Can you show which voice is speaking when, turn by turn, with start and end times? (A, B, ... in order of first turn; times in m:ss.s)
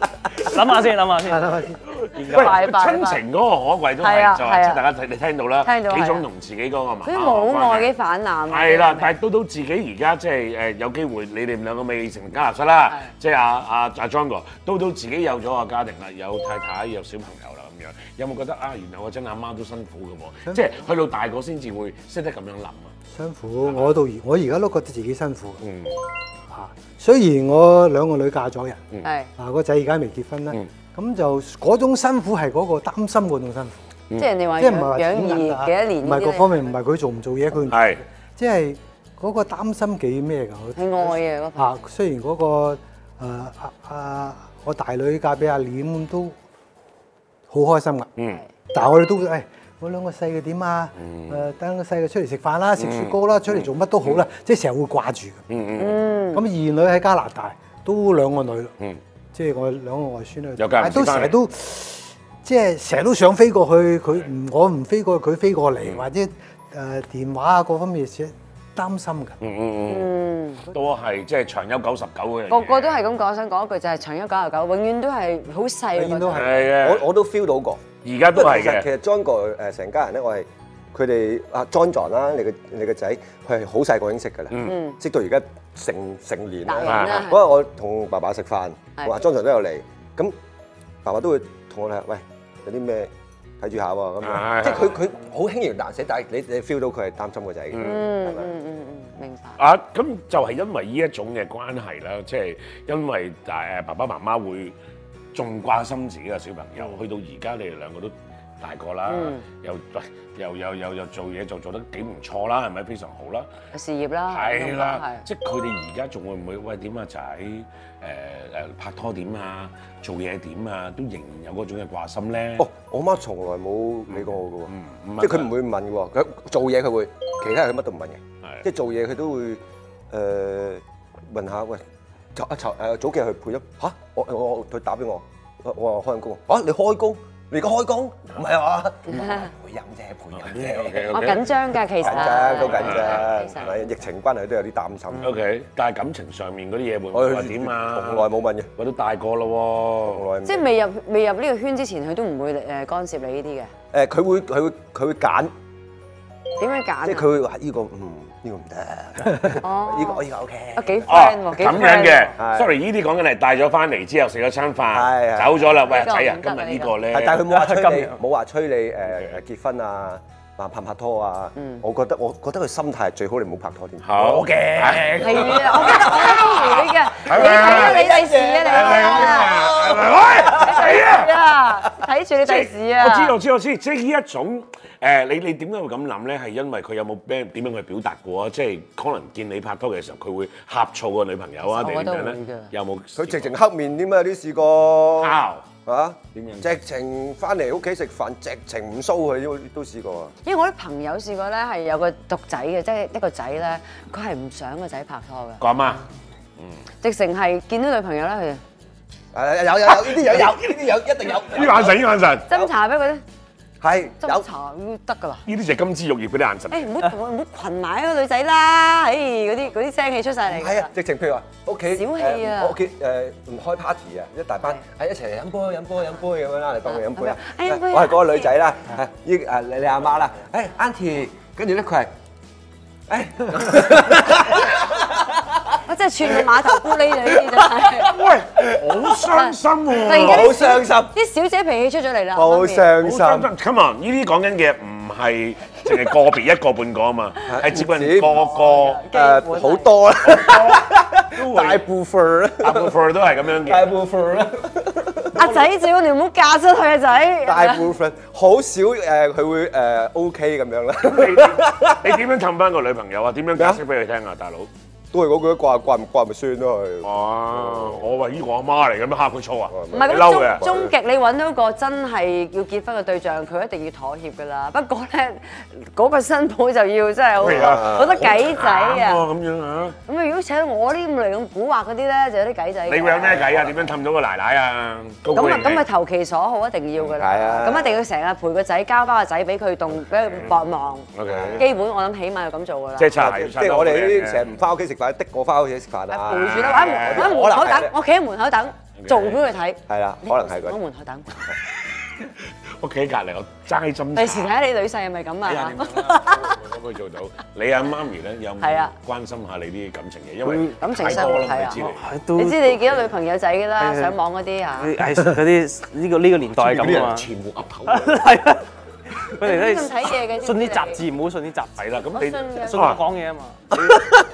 0:00.4-0:01.7 A
0:01.2-0:01.8 B
0:01.9-0:07.9 C
0:02.3-0:03.2 D
0:04.0-0:04.8 D
0:05.6-0:06.3 D
0:07.1-0:09.1 D
0:08.5-0:22.9 C
0:20.5-0:20.8 B
0:23.1-0:25.6 B
0:23.6-0:24.0 C
0:25.6-0:26.0 C
0:26.5-0:28.8 B
0:29.0-0:29.3 D
0:29.4-0:33.8 B
0:34.2-0:36.5 D
0:34.6-0:46.4 B
0:37.6-0:38.0 C
0:40.8-0:41.7 D
0:47.5-0:48.1 B
0:48.7-0:55.4 B
0:51.0-0:51.4 C
0:52.8-0:54.2 C
0:55.5-0:56.0 C
0:55.8-0:56.5 D
0:56.3-0:58.7 B
0:59.3-1:09.4 B
1:00.6-1:01.4 C
1:09.4-1:10.1 C
1:09.9-1:10.7 D
1:10.7-1:13.0 C
1:12.5-1:16.5 D
1:15.9-1:16.7 B
1:16.3-1:17.1 C
1:16.6-1:30.4 E
1:18.0-1:18.9 C
1:24.5-1:24.8 C
1:24.6-1:25.0 D
1:26.7-1:27.4 D
1:26.8-1:27.3 C
1:31.0-1:38.5 E
1:34.2-1:35.0 C
1:37.7-1:38.1 C
1:37.8-1:39.6 D
1:39.6-1:44.8 C
1:45.3-1:53.5 C
1:49.1-1:49.4 D
1:53.7-1:55.2 D
1:54.3-2:02.7 C
2:02.6-2:11.8 E
2:04.1-2:05.5 C
2:12.4-2:21.4 E
2:19.1-2:19.5 D
2:20.3-2:21.5 C
2:21.1-2:23.8 D
2:22.0-2:25.4 E
2:22.0-2:23.5 C
2:25.2-2:30.2 C
2:27.1-2:28.7 E
2:30.1-2:30.7 E
2:30.4-2:33.7 D
2:33.9-2:35.5 E
2:36.6-2:37.3 D
2:37.0-2:41.1 E
2:39.5-2:42.3 D
2:41.1-2:47.5 C
2:42.3-2:42.8 E
2:44.9-2:45.9 E
2:45.9-2:47.0 D
2:47.1-3:01.2 E
2:47.5-2:48.2 A
2:51.6-2:51.8 D
2:54.0-2:58.1 C
2:55.1-2:59.7 D
2:58.6-3:01.3 C
3:00.6-3:03.4 D
3:02.4-3:13.6 C
3:11.7-3:12.7 D
3:13.2-3:20.3 E
3:15.2-3:15.7 C
3:16.3-3:16.7 C
3:20.4-3:25.6 D
3:25.6-3:26.1 C
3:27.0-3:28.6 D
3:29.3-3:32.7 E
3:31.3-3:32.5 C
3:32.5-3:33.2 D
3:33.8-3:34.5 E
3:34.2-3:35.4 D
3:35.5-3:37.0 C
3:36.7-3:40.9 D
3:40.5-3:52.1 E
3:41.9-3:42.8 D
3:46.9-3:48.5 D
3:53.1-3:55.4 E
3:55.9-3:58.1 D
3:57.2-3:59.2 E
3:58.1-4:00.6 C
3:59.4-4:02.9 D
3:59.9-4:01.2 E
4:02.4-4:03.5 E
4:03.0-4:09.0 C
4:07.5-4:08.5 E
4:08.4-4:09.9 D
4:09.1-4:13.0 E
4:10.3-4:11.9 C
4:12.6-4:14.0 C
4:13.5-4:15.7 E
4:15.4-4:17.9 D
4:17.5-4:22.2 E
4:21.0-4:24.7 C
4:23.6-4:23.8 E
4:25.1-4:28.0 E
4:27.0-4:30.6 C
4:29.7-4:30.9 E
4:29.9-4:39.2 D
4:37.4-4:38.4 E
4:37.4-4:40.0 C
4:40.1-4:43.5 D
4:42.9-4:45.8 C
4:43.3-4:43.8 E
4:45.3-4:53.2 D
4:47.1-4:48.0 E
4:50.1-4:50.6 C
4:51.2-4:51.7 C
4:51.2-4:51.7 E
4:53.0-4:54.6 C
4:53.2-4:58.0 E
4:56.1-5:01.3 D
4:56.3-4:57.4 C
4:59.0-4:59.4 C
4:59.9-5:00.8 E
5:02.2-5:04.5 C
5:04.2-5:06.6 D
5:05.5-5:12.0 C
5:08.6-5:08.9 D
5:10.4-5:10.8 A
5:10.7-5:11.8 D
5:11.8-5:13.1 A
5:12.4-5:15.0 D
5:13.8-5:14.2 A
5:14.8-5:17.3 A
5:16.6-5:18.3 C
5:16.7-5:17.1 E
5:17.9-5:23.9 A
5:19.4-5:21.0 D
5:21.8-5:23.0 C
5:22.2-5:23.0 D
5:23.8-5:24.1 E